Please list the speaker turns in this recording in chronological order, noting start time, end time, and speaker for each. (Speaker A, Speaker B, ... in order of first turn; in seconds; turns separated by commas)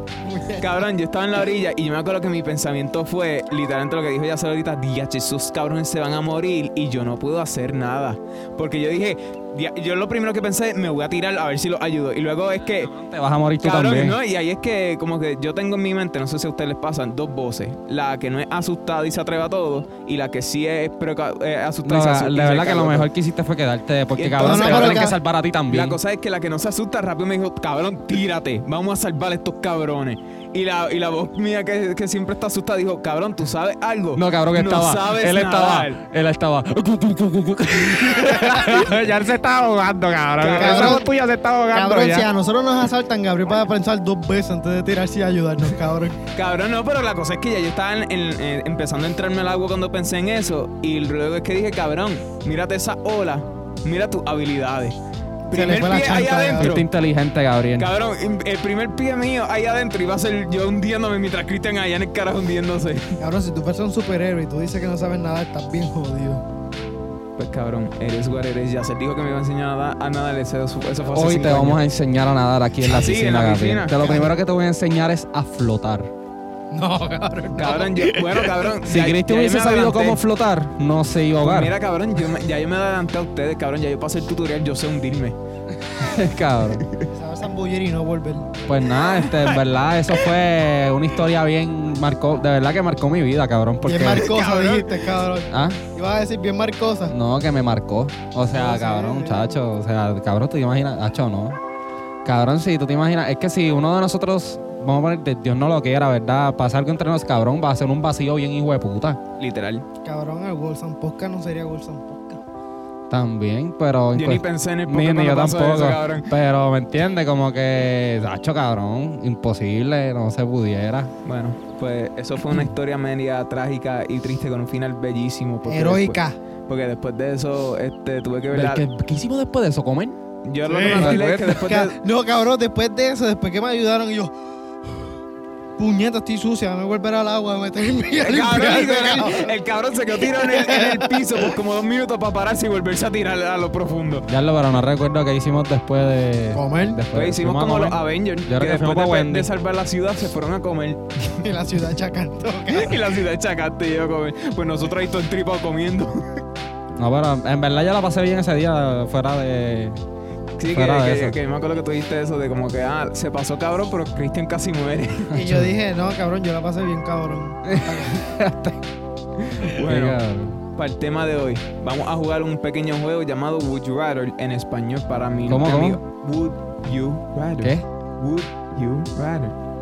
Speaker A: 0.2-0.7, Speaker B: 0.6-12.9, Speaker C: 12.6-14.2, Speaker B: 13.6-23.1, Speaker C: 21.8-26.0, Speaker B: 24.2-25.1, Speaker A: 24.4-25.1, Speaker B: 25.7-36.0, Speaker C: 34.1-42.3, Speaker B: 40.4-41.0, Speaker A: 40.5-41.1, Speaker A: 41.7-46.2, Speaker B: 46.3-55.0, Speaker B: 55.5-56.9, Speaker A: 55.5-56.7, Speaker C: 56.6-57.9, Speaker B: 57.8-63.2, Speaker A: 63.2-66.4, Speaker B: 67.4-71.8, Speaker C: 71.1-76.1, Speaker B: 72.8-74.0, Speaker A: 74.0-74.3, Speaker A: 76.7-78.7, Speaker B: 77.5-80.2, Speaker C: 78.8-81.8, Speaker B: 81.4-85.3, Speaker C: 85.8-86.8, Speaker A: 87.0-88.5, Speaker C: 88.7-94.3, Speaker B: 89.0-89.6, Speaker A: 93.8-97.1, Speaker B: 94.1-95.1, Speaker C: 95.5-95.8, Speaker C: 97.1-101.6, Speaker A: 98.5-99.5, Speaker C: 102.2-109.2, Speaker B: 109.4-109.8, Speaker A: 110.0-112.4, Speaker C: 113.1-121.1, Speaker B: 114.1-116.3, Speaker B: 121.2-128.8, Speaker A: 125.7-126.4, Speaker C: 128.5-130.2, Speaker B: 130.4-132.0, Speaker A: 130.6-134.3, Speaker C: 130.8-131.7, Speaker A: 135.8-139.5, Speaker B: 138.2-144.3, Speaker A: 140.2-141.4, Speaker C: 144.3-149.5, Speaker A: 146.5-147.0, Speaker B: 147.1-151.4, Speaker A: 151.4-153.0, Speaker B: 152.7-156.4, Speaker C: 157.0-160.0, Speaker B: 160.6-165.3, Speaker C: 160.7-161.4, Speaker A: 165.3-168.3, Speaker C: 165.4-165.7, Speaker C: 167.7-168.8, Speaker B: 169.4-170.2, Speaker C: 169.7-170.6, Speaker B: 170.7-179.5, Speaker C: 175.5-176.0